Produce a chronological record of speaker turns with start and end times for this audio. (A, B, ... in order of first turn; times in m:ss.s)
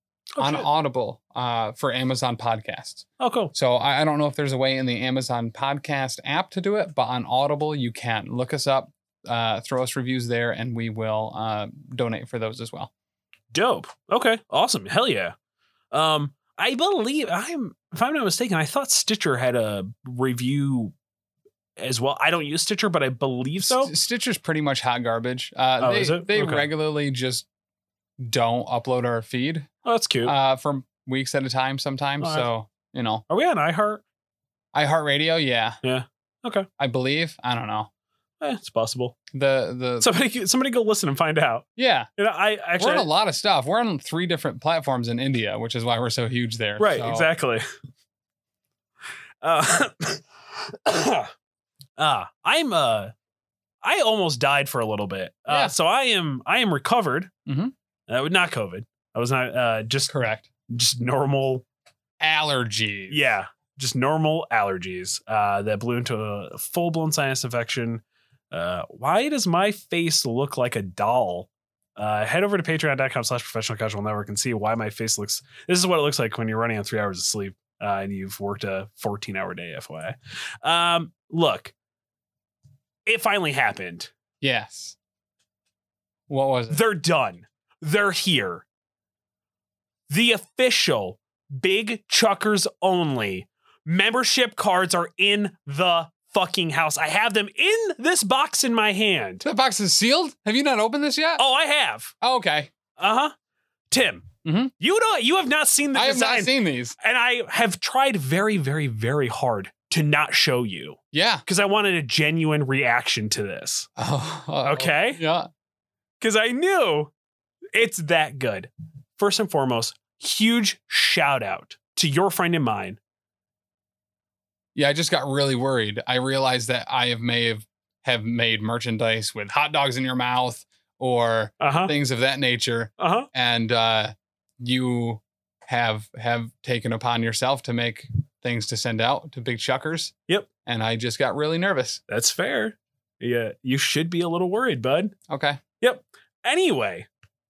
0:00.4-0:00.7 A
0:00.4-0:12.9 B
0:03.2-0:03.5 A
0:13.5-0:15.4 A
0:15.9-0:21.0 A
0:21.8-0:23.9 A
0:23.6-0:27.5 B
0:25.8-0:26.7 A
0:28.2-0:29.7 B
0:29.8-0:30.4 A
0:30.2-0:33.2 B
0:32.2-0:32.5 A
0:33.3-0:34.0 A
0:34.7-0:35.8 B
0:35.8-0:36.7 A
0:36.8-0:37.9 B
0:38.4-0:39.2 A
0:39.3-0:40.1 B
0:40.0-0:43.1 A
0:41.8-0:42.1 B
0:42.8-0:47.3 B
0:46.8-0:47.6 A
0:49.4-0:50.2 A
0:50.8-0:51.3 A
0:52.0-0:53.1 A
0:53.8-0:57.3 A
0:55.5-0:55.8 B
0:57.5-0:57.7 B
0:58.1-1:00.1 A
1:00.1-1:00.5 B
1:00.7-1:01.6 A
1:02.2-1:03.3 B
1:03.1-1:21.7 A
1:23.1-1:24.1 A
1:24.4-1:25.0 B
1:26.3-1:26.8 B
1:26.7-1:28.7 A
1:30.1-1:39.4 A
1:39.4-1:41.4 B
1:41.4-1:42.1 A
1:42.2-1:42.7 B
1:43.0-1:43.3 A
1:43.9-1:44.3 A
1:44.4-1:44.7 B
1:44.8-1:53.9 A
1:45.9-1:47.0 B
1:51.1-1:51.4 B
1:54.0-1:55.5 B
1:54.6-1:55.2 A
1:56.2-1:57.1 A
1:57.7-2:03.0 A
2:04.8-2:20.1 B
2:11.6-2:11.9 A
2:13.0-2:13.3 A
2:20.6-2:22.0 B
2:22.1-2:25.1 A
2:25.3-2:25.6 B
2:25.8-2:27.1 A